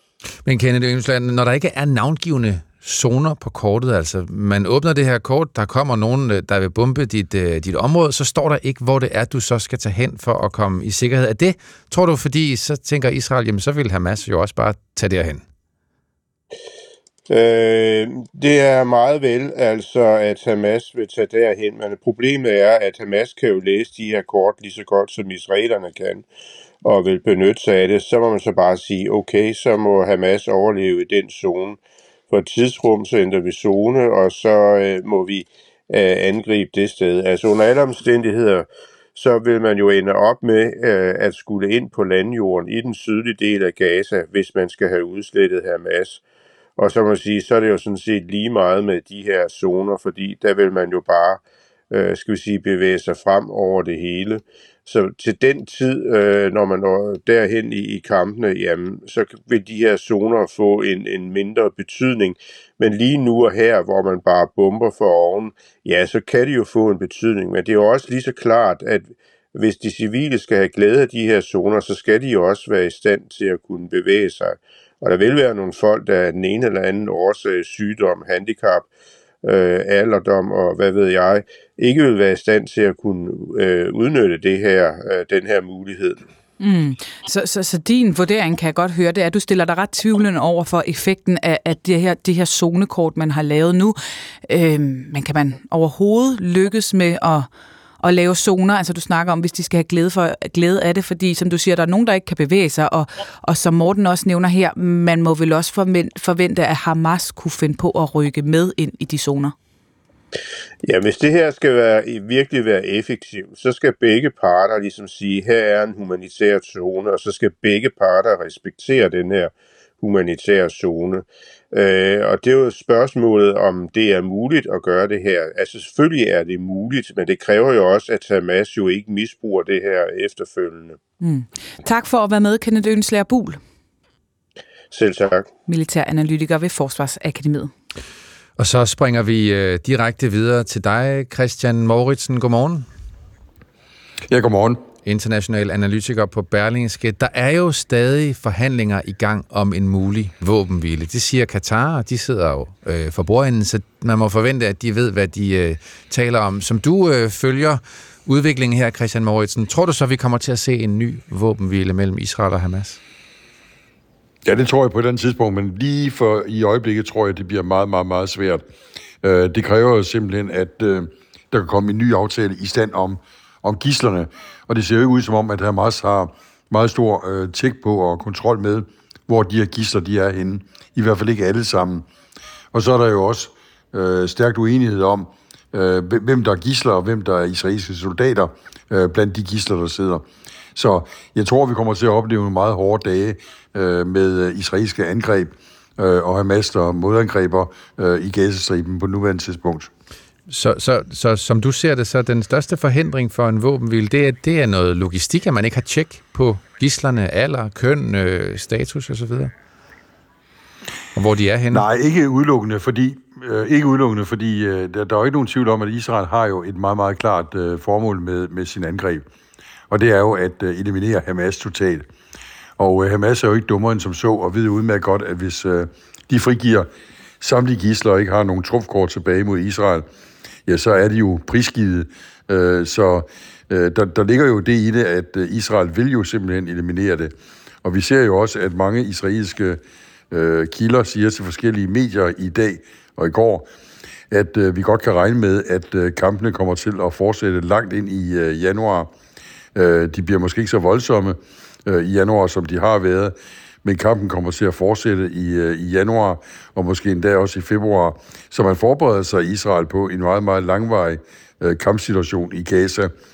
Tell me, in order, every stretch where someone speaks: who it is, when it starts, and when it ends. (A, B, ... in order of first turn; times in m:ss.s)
0:00.4-0:15.4 A
0:17.3-0:26.3 B
0:26.8-0:31.8 B
0:32.3-0:46.2 B
0:46.8-1:18.9 B
1:19.4-1:26.2 B
1:26.6-1:37.5 C
1:38.0-1:49.6 C
1:50.8-2:11.0 B
2:11.2-2:13.6 C
2:14.9-2:15.5 B
2:15.7-2:17.7 C
2:18.6-2:22.9 A
2:24.3-2:24.8 D
2:25.0-2:43.0 A
2:44.4-2:48.6 D
2:49.2-3:02.1 D
3:02.7-3:19.9 D
3:20.5-3:29.5 A
3:31.2-3:31.9 A
3:31.7-3:39.3 D
3:39.9-3:42.1 D
3:42.8-3:46.9 D
3:47.4-3:50.1 D
3:50.7-3:59.8 D
4:00.3-4:03.7 D
4:04.3-4:09.1 D
4:09.8-4:23.1 D